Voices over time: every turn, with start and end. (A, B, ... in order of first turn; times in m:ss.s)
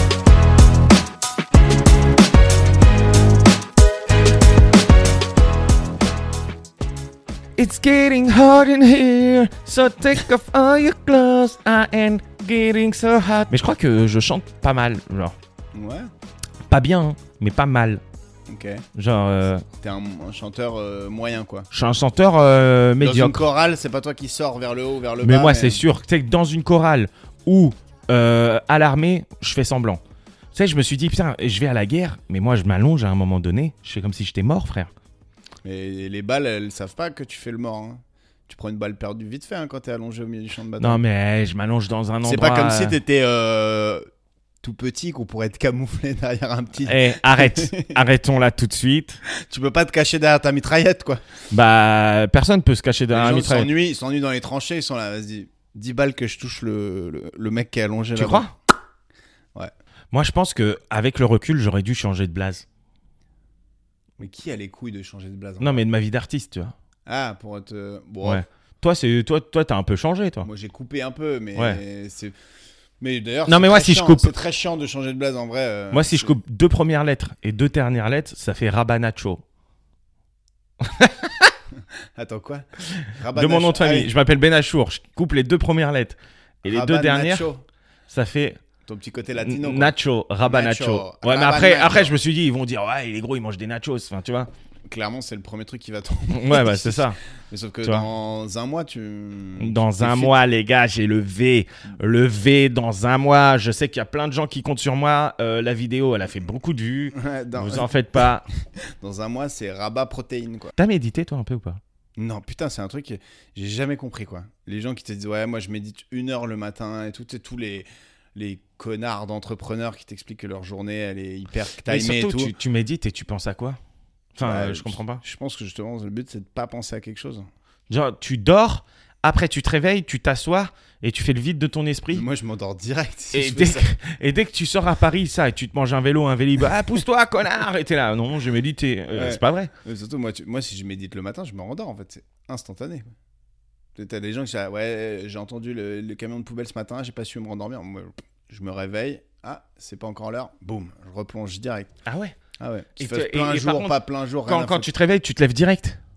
0:07.6-0:15.3 A
0:15.7-0:16.1 B
0:16.7-0:18.0 A
0:18.5-0:18.8 B
0:18.9-0:19.6 A
0:19.8-0:21.7 B
0:21.7-0:23.4 A
0:23.0-0:25.8 B
0:25.2-0:30.0 A
0:30.5-0:34.9 A
0:35.6-0:41.0 B
0:40.8-0:43.0 A
0:42.2-0:44.0 B
0:44.6-0:47.9 B
0:46.8-0:49.2 A
0:49.3-0:51.2 B
0:51.5-0:53.7 A
0:53.1-0:58.4 B
0:58.1-0:58.5 A
1:00.1-1:02.6 A
1:04.2-1:05.8 B
1:05.6-1:06.7 A
1:07.1-1:08.4 B
1:08.2-1:10.5 A
1:10.4-1:12.3 B
1:13.0-1:16.4 B
1:13.5-1:14.3 A
1:15.9-1:19.4 A
1:20.8-1:21.5 A
1:22.2-1:24.1 B
1:23.3-1:27.5 A
1:26.6-1:27.6 B
1:28.1-1:28.6 A
1:28.8-1:29.9 B
1:29.4-1:34.5 A
1:30.4-1:32.1 B
1:34.9-1:40.4 B
1:36.3-1:37.2 A
1:39.6-1:48.4 A
1:47.1-1:47.9 B
1:49.0-1:50.7 B
1:50.8-1:51.8 A
1:52.2-2:02.5 B
2:01.9-2:03.8 A
2:04.3-2:05.2 A
2:04.4-2:07.4 B
2:07.9-2:12.2 A
2:12.1-2:13.9 B
2:13.3-2:19.7 A
2:19.1-2:23.1 B
2:24.0-2:31.9 B
2:32.0-2:32.4 A
2:32.6-2:34.9 B
2:33.0-2:36.0 A